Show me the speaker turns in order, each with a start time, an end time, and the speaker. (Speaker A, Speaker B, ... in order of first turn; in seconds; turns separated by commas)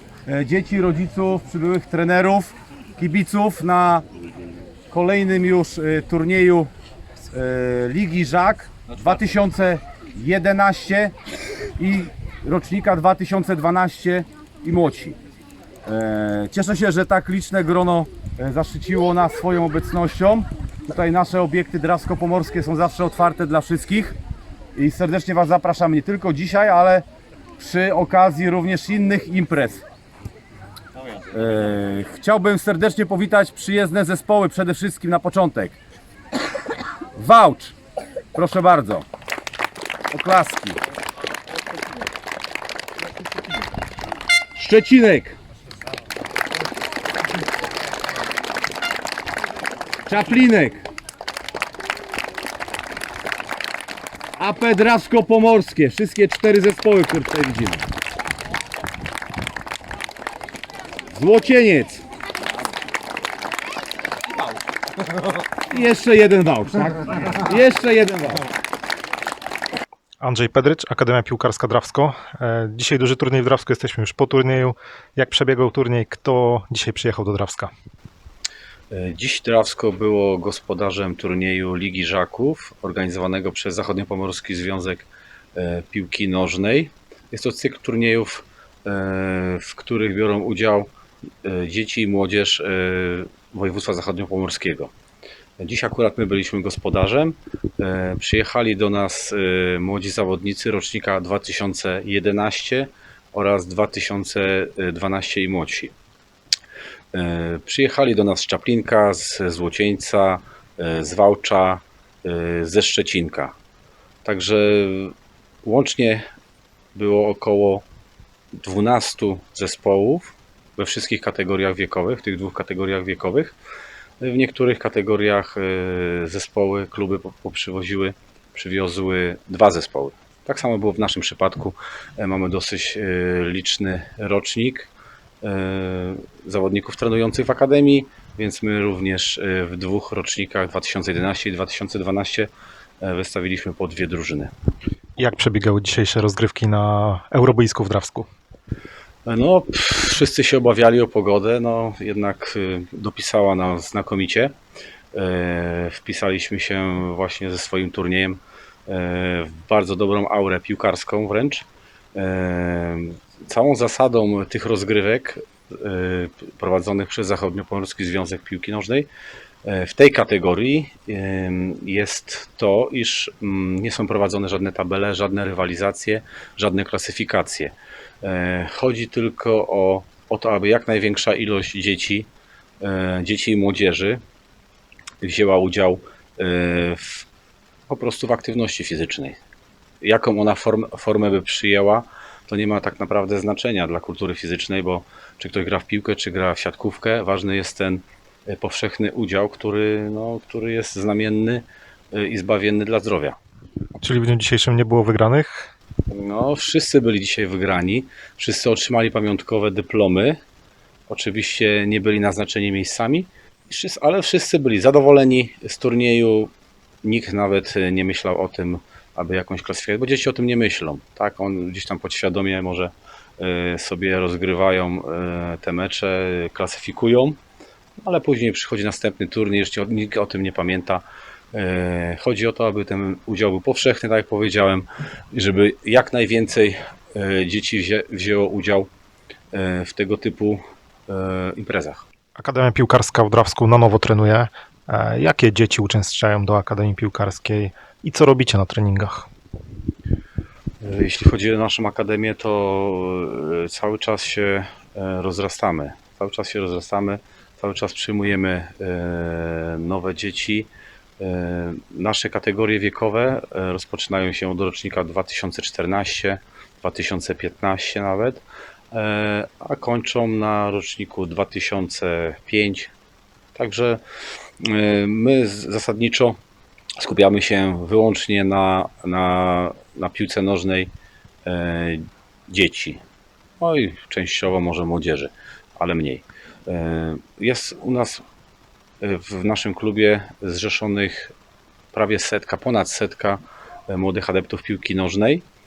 Speaker A: 0.3-2.4, Speaker B: 0.3-2.5, Speaker A: 3.0-3.7, Speaker B: 3.0-4.0, Speaker A: 4.9-6.4, Speaker B: 4.9-6.7, Speaker A: 7.4-9.6, Speaker B: 7.4-11.1, Speaker A: 10.5-10.9, Speaker A: 11.8-14.1, Speaker B: 11.8-15.2, Speaker B: 15.9-24.1, Speaker A: 18.3-20.2, Speaker A: 20.9-24.0, Speaker B: 24.8-27.0, Speaker A: 24.8-27.0, Speaker A: 27.6-29.8, Speaker B: 27.6-29.8, Speaker B: 31.4-35.7, Speaker A: 31.6-32.2, Speaker A: 34.1-35.7, Speaker A: 37.2-37.7, Speaker A: 38.4-39.0, Speaker B: 38.4-38.9, Speaker A: 40.1-40.7, Speaker A: 44.6-45.3, Speaker B: 44.7-45.3, Speaker A: 50.1-50.8, Speaker A: 54.4-57.8, Speaker B: 55.2-55.6, Speaker B: 56.4-56.7, Speaker A: 61.2-62.0, Speaker A: 65.7-68.4, Speaker B: 67.6-68.2, Speaker C: 70.2-77.7, Speaker B: 78.9-90.9, Speaker B: 91.4-94.9, Speaker B: 95.6-105.9, Speaker B: 107.1-113.5, Speaker B: 114.2-116.2, Speaker B: 117.0-117.8, Speaker B: 118.6-123.5, Speaker B: 124.2-134.9, Speaker B: 135.4-142.5, Speaker B: 143.0-144.5, Speaker C: 145.2-148.3, Speaker B: 149.3-154.5, Speaker B: 155.1-169.1, Speaker B: 169.7-182.3, Speaker B: 182.8-184.2, Speaker B: 185.2-187.3, Speaker B: 187.9-189.4, Speaker B: 190.0-203.4, Speaker C: 204.0-205.7, Speaker B: 206.1-210.4, Speaker B: 211.1-216.5, Speaker B: 217.0-227.4, Speaker B: 228.0-238.9, Speaker B: 239.5-242.1, Speaker C: 242.4-249.3, Speaker B: 250.8-272.9, Speaker B: 273.6-274.0, Speaker B: 274.6-276.4, Speaker B: 277.0-280.9, Speaker B: 281.4-283.0, Speaker B: 283.6-288.2, Speaker B: 289.0-291.3, Speaker B: 291.9-295.4